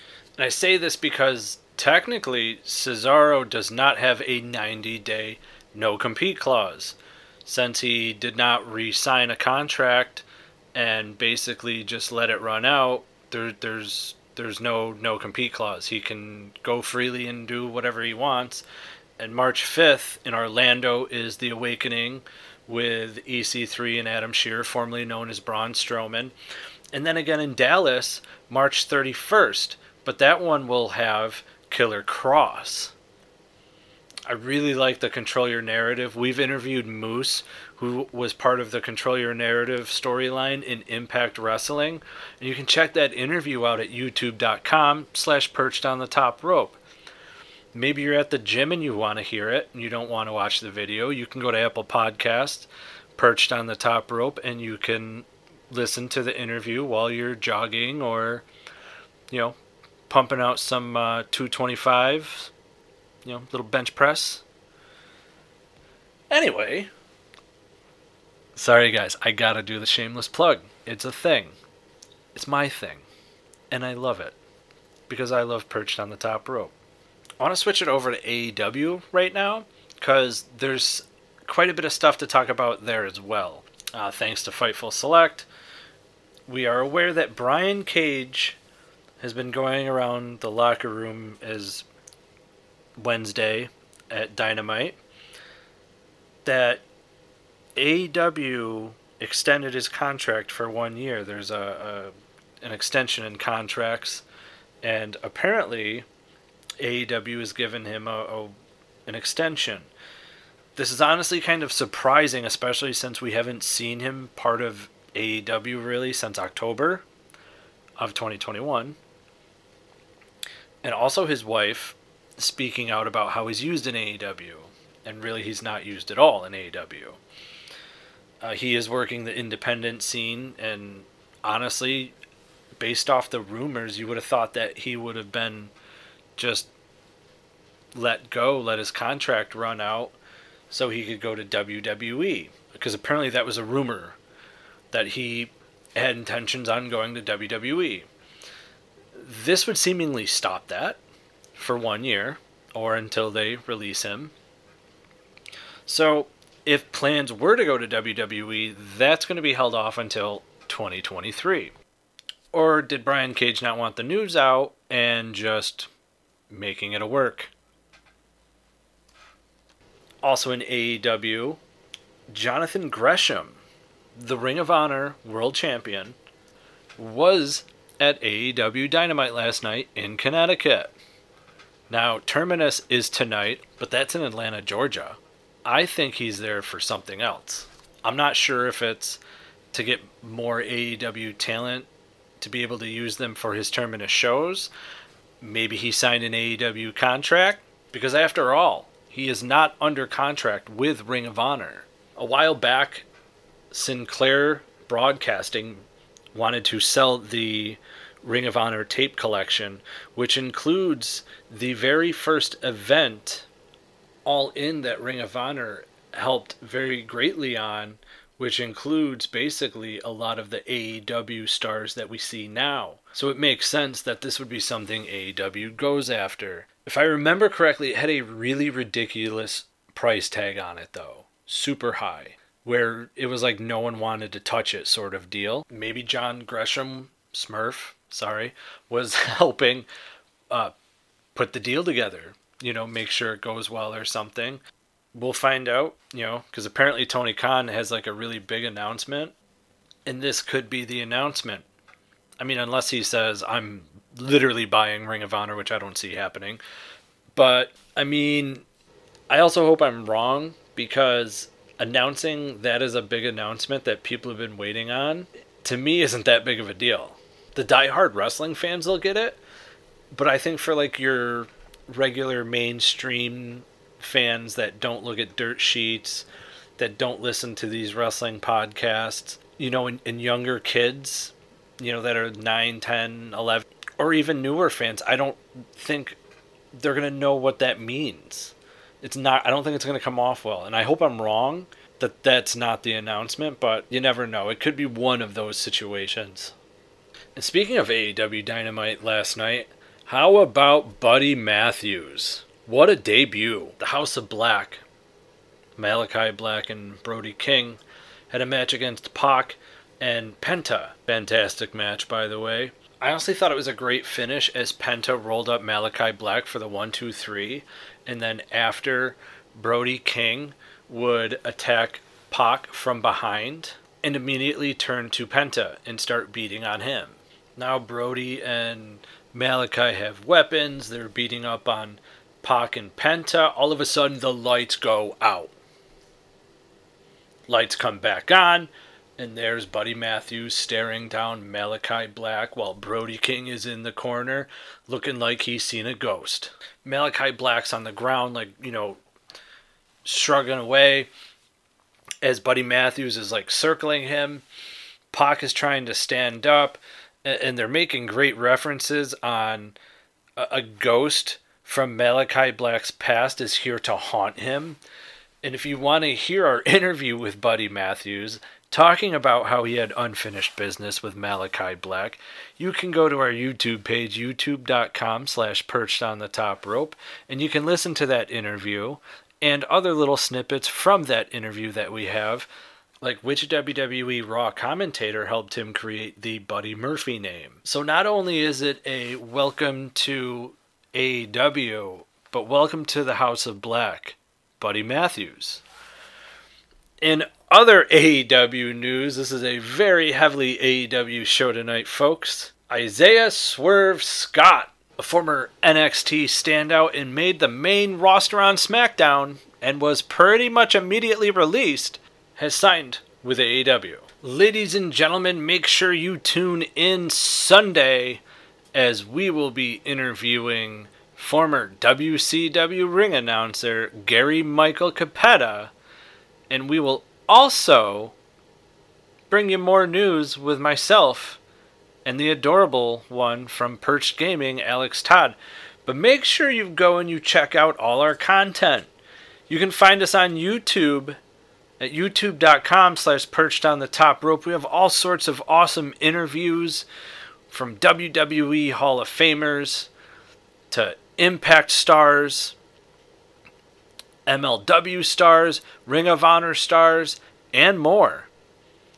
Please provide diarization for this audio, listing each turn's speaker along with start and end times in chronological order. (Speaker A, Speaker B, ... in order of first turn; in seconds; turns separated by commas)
Speaker A: 0.4-18.6, Speaker A: 19.2-26.3, Speaker A: 26.9-32.9, Speaker A: 34.3-46.8, Speaker A: 47.7-58.5, Speaker A: 59.3-59.6, Speaker A: 60.1-62.5, Speaker A: 63.2-64.4, Speaker A: 66.3-66.9, Speaker A: 68.5-71.6, Speaker A: 72.3-73.1, Speaker A: 73.7-74.4, Speaker A: 75.1-76.7, Speaker A: 77.4-85.5, Speaker A: 86.5-88.6, Speaker A: 89.2-91.9, Speaker A: 93.0-95.0, Speaker A: 96.4-96.8, Speaker A: 97.8-104.2, Speaker A: 104.8-106.1, Speaker A: 106.8-108.5, Speaker A: 109.1-109.9, Speaker A: 110.8-117.0, Speaker A: 118.0-119.0, Speaker A: 120.8-127.2, Speaker A: 128.4-132.1, Speaker A: 132.8-135.7, Speaker A: 136.3-136.7, Speaker A: 137.9-140.1, Speaker A: 140.7-144.2, Speaker A: 144.9-148.1, Speaker A: 149.1-151.0, Speaker A: 151.5-154.3, Speaker A: 155.8-161.7, Speaker A: 162.5-165.9, Speaker A: 166.5-167.5, Speaker A: 170.2-171.6, Speaker A: 172.3-173.6, Speaker A: 174.1-176.2, Speaker A: 177.0-180.9, Speaker A: 181.9-189.2, Speaker A: 189.7-194.7, Speaker A: 195.4-203.1, Speaker A: 203.7-213.5, Speaker A: 214.2-239.9, Speaker A: 241.3-244.6, Speaker A: 245.1-249.3, Speaker A: 250.1-251.7, Speaker A: 252.4-256.6, Speaker A: 257.3-258.6, Speaker A: 259.3-269.4, Speaker A: 270.1-286.2, Speaker A: 286.7-296.5, Speaker A: 297.3-304.8, Speaker A: 305.8-335.5, Speaker A: 337.5-349.0, Speaker A: 350.0-351.1, Speaker A: 352.2-354.4, Speaker A: 355.1-359.8, Speaker A: 360.4-364.8, Speaker A: 365.4-382.5, Speaker A: 383.0-395.6, Speaker A: 397.0-418.2, Speaker A: 418.7-425.7, Speaker A: 426.5-428.1, Speaker A: 429.3-431.4, Speaker A: 432.0-438.9, Speaker A: 439.5-441.2, Speaker A: 441.8-446.9, Speaker A: 447.5-449.9, Speaker A: 450.7-452.6, Speaker A: 454.2-458.3